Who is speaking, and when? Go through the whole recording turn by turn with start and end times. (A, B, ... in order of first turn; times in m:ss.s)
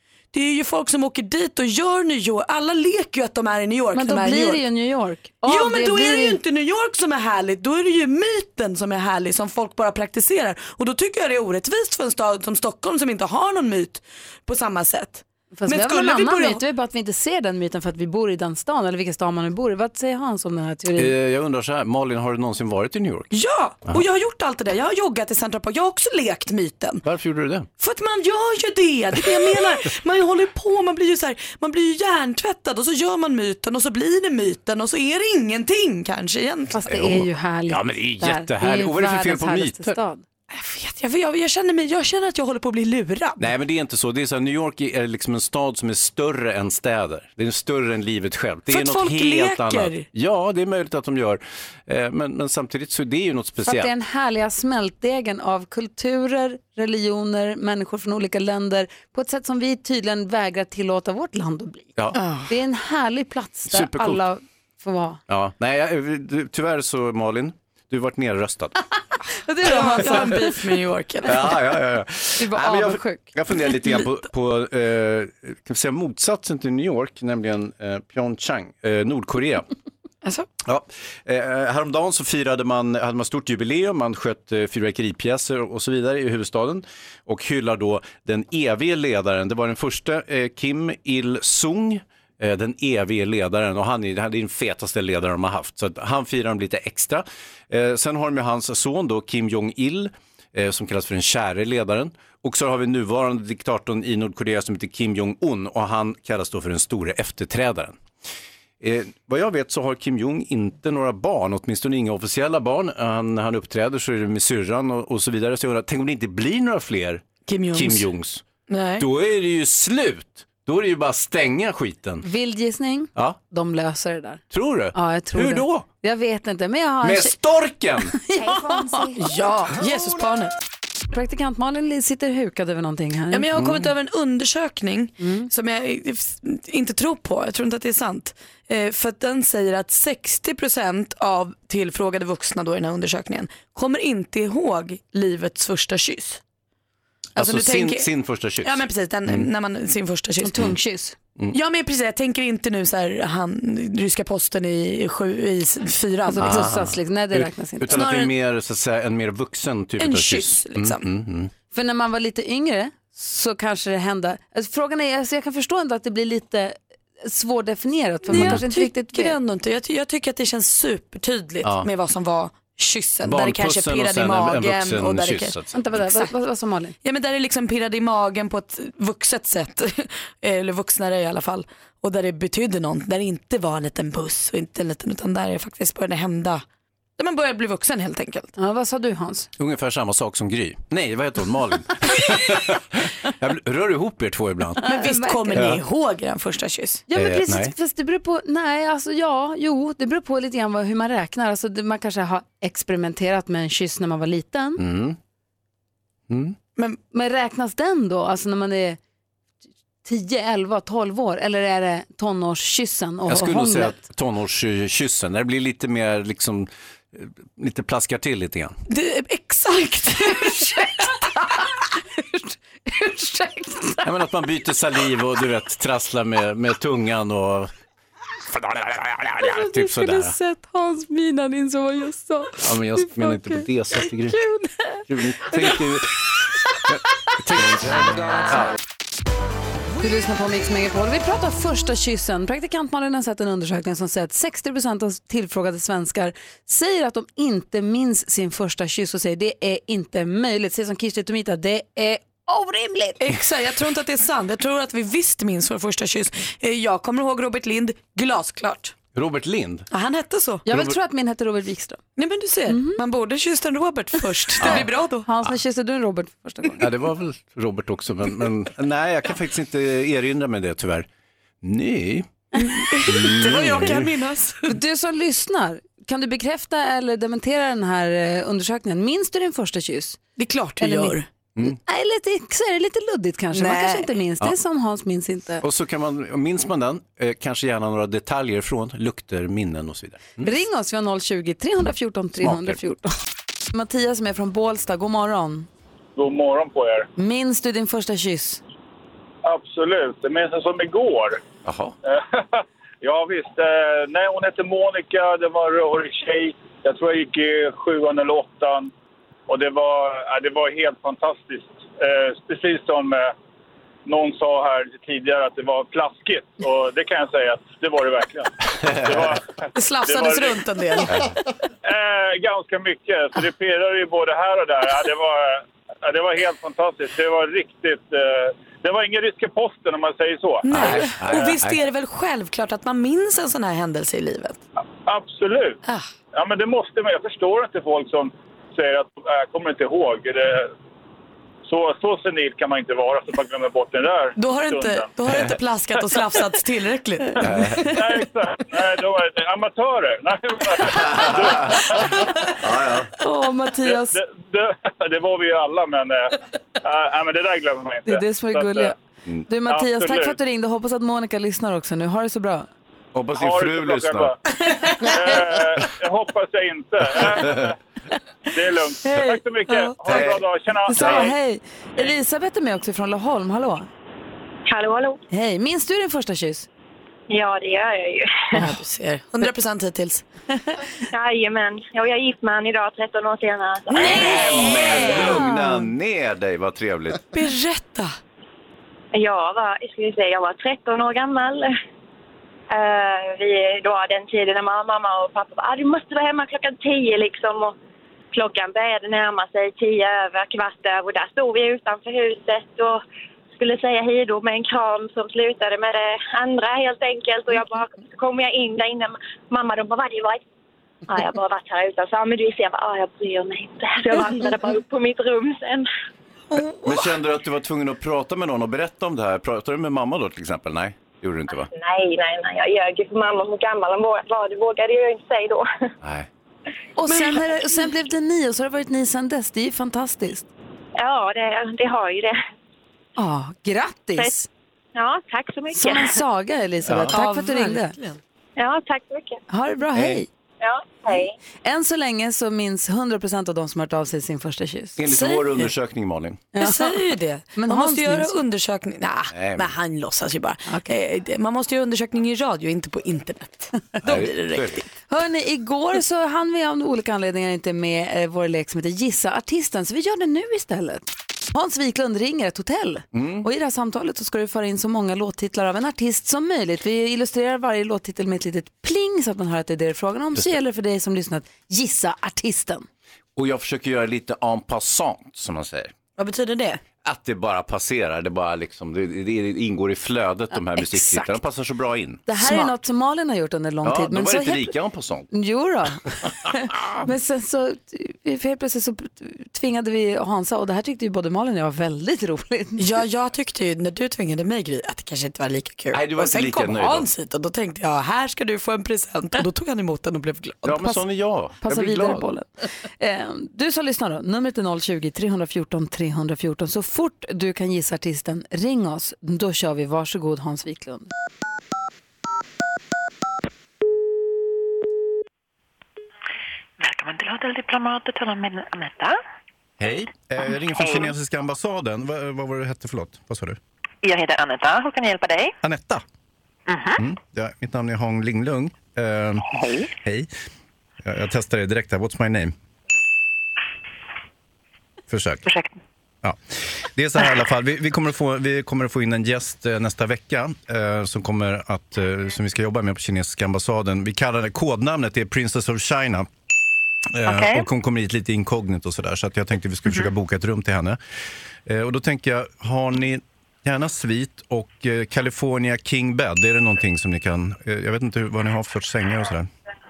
0:00.3-0:04.6 A
0:03.9-0:06.4 B
0:05.4-0:16.6 A
0:15.6-0:21.1 B
0:21.0-0:23.3 C
0:23.3-0:27.0 A
0:27.0-0:27.7 C
0:27.8-0:36.8 A
0:36.7-0:40.2 B
0:36.9-0:40.0 C
0:40.5-0:43.5 A
0:43.4-0:53.9 C
0:48.7-0:50.0 A
0:53.6-1:01.9 B
1:02.2-1:02.5 A
1:02.5-1:05.2 B
1:03.7-1:04.2 C
1:05.3-1:08.8 C
1:09.4-1:10.6 B
1:09.6-1:11.5 A
1:11.2-1:19.7 C
1:12.4-1:13.3 B
1:20.6-1:48.0 C
1:48.8-1:58.4 C
1:57.5-1:58.0 A
1:58.7-1:59.1 A
1:59.0-2:02.3 C
2:02.2-2:04.4 B
2:04.5-2:05.9 C
2:04.9-2:07.4 B
2:07.0-2:08.2 C
2:08.1-2:09.3 B
2:09.1-2:10.5 A
2:11.1-2:13.5 B
2:13.3-2:26.4 A
2:13.6-2:13.9 C
2:15.2-2:15.5 B
2:27.4-2:29.5 C
2:27.4-2:28.1 A
2:28.6-2:30.7 A
2:30.4-2:31.2 B
2:31.5-2:36.6 A
2:36.3-2:38.0 B
2:36.4-2:41.5 C
2:37.9-2:38.3 A
2:40.0-2:41.0 A
2:41.7-2:49.4 B
2:48.3-2:56.3 A
2:48.3-2:48.6 C
2:51.6-2:51.9 C
2:53.2-2:55.8 C
2:55.7-2:57.0 B
2:57.0-3:06.6 A
3:07.2-3:08.5 A
3:08.6-3:09.5 B
3:09.6-3:14.8 C
3:14.8-3:15.6 B
3:14.8-3:17.0 A
3:15.5-3:15.8 C
3:17.1-3:24.8 B
3:17.1-3:17.7 C
3:24.8-3:25.2 C
3:26.3-3:26.6 C
3:27.1-3:29.0 B
3:30.0-3:34.0 B
3:33.3-3:38.8 C
3:38.9-3:41.2 A
3:40.5-3:44.1 B
3:44.0-3:47.7 C
3:48.5-3:50.4 C
3:49.4-3:55.8 B
3:52.6-3:54.4 C
3:55.1-3:56.3 C
3:56.8-3:58.7 C
4:00.0-4:13.2 B
4:13.2-4:19.0 A
4:19.1-4:19.9 C
4:19.9-4:20.6 A
4:20.7-4:22.0 B
4:22.2-4:25.3 A
4:22.7-4:23.0 B
4:24.6-4:24.9 C
4:24.7-4:26.9 B
4:26.8-4:31.1 C
4:31.6-4:32.3 C
4:32.6-4:34.8 A
4:33.0-4:34.1 C
4:34.7-4:40.2 B
4:40.4-4:41.3 A
4:40.8-4:45.6 B
4:43.5-4:44.1 A
4:45.6-4:50.5 C
4:50.4-4:53.2 B
4:52.4-4:52.8 C
4:53.7-4:55.7 B
4:56.2-4:57.1 D
4:57.2-4:58.6 B
4:59.4-5:01.4 D
5:01.6-5:02.0 C
5:02.1-5:08.9 D
5:09.5-5:13.3 D
5:14.1-5:20.6 D
5:18.9-5:19.2 C
5:19.8-5:21.2 A
5:21.8-5:31.5 D
5:30.6-5:34.6 A
5:30.7-5:31.8 C
5:35.1-5:35.8 D
5:36.3-5:40.7 D
5:41.6-5:45.1 D
5:44.4-5:48.0 A
5:47.4-5:47.9 C
5:47.9-5:52.3 D
5:50.9-5:51.9 C
5:52.6-5:53.1 C
5:53.2-5:54.2 B
5:53.8-5:58.9 D
5:58.1-5:59.0 B
5:59.5-6:02.7 B
5:59.7-6:00.4 D
6:03.1-6:04.3 C
6:03.4-6:04.4 D
6:05.0-6:07.8 D
6:07.4-6:07.7 C
6:08.5-6:11.3 D
6:09.1-6:10.2 B
6:10.0-6:10.4 C
6:10.9-6:13.9 B
6:11.0-6:11.3 C
6:14.7-6:15.2 E
6:15.3-6:16.7 B
6:17.3-6:18.5 E
6:18.6-6:20.2 A
6:21.1-6:24.8 E
6:23.9-6:25.5 A
6:23.9-6:27.3 C
6:25.0-6:25.6 B
6:27.3-6:28.1 A
6:29.1-6:31.7 E
6:32.7-6:37.8 E
6:38.3-6:43.0 E
6:43.6-6:50.4 E
6:51.1-6:55.9 E
6:56.5-6:57.0 A
6:56.8-7:01.7 C
7:01.8-7:05.7 E
7:06.0-7:06.3 C
7:07.0-7:10.5 B
7:07.1-7:07.4 A
7:11.0-7:12.4 E
7:13.2-7:14.5 B
7:15.0-7:16.2 E
7:15.7-7:18.0 B
7:16.8-7:17.2 C
7:17.1-7:18.2 A
7:18.6-7:19.4 E
7:19.5-7:20.3 B
7:19.9-7:20.2 C
7:20.6-7:21.3 E
7:21.6-7:25.1 B
7:25.0-7:26.4 C
7:25.1-7:25.4 A
7:26.6-7:27.0 B
7:26.6-7:34.8 A
7:27.5-7:28.4 B
7:29.3-7:29.7 C
7:34.0-7:34.8 C
7:35.1-7:52.9 B
7:43.1-7:43.5 C
7:53.4-7:55.9 C
7:56.2-7:56.8 A
7:57.0-8:02.3 C
8:00.8-8:01.3 B
8:02.3-8:04.7 B
8:02.4-8:02.7 A
8:03.8-8:05.3 C
8:05.3-8:12.8 B
8:12.8-8:21.0 A
8:15.9-8:17.1 C
8:20.6-8:22.3 C
8:21.6-8:22.5 B
8:23.0-8:31.1 B
8:36.8-8:39.2 F
8:39.8-8:43.6 C
8:40.8-8:41.1 F
8:44.0-8:45.6 F
8:45.6-8:46.0 C
8:46.7-8:47.0 F
8:47.0-8:50.3 C
8:49.5-8:49.9 F
8:51.0-8:52.5 C
8:55.1-8:55.4 C
8:55.4-8:55.8 F
8:56.2-9:06.3 C
9:07.1-9:11.0 C
9:07.3-9:07.7 F
9:11.7-9:19.5 C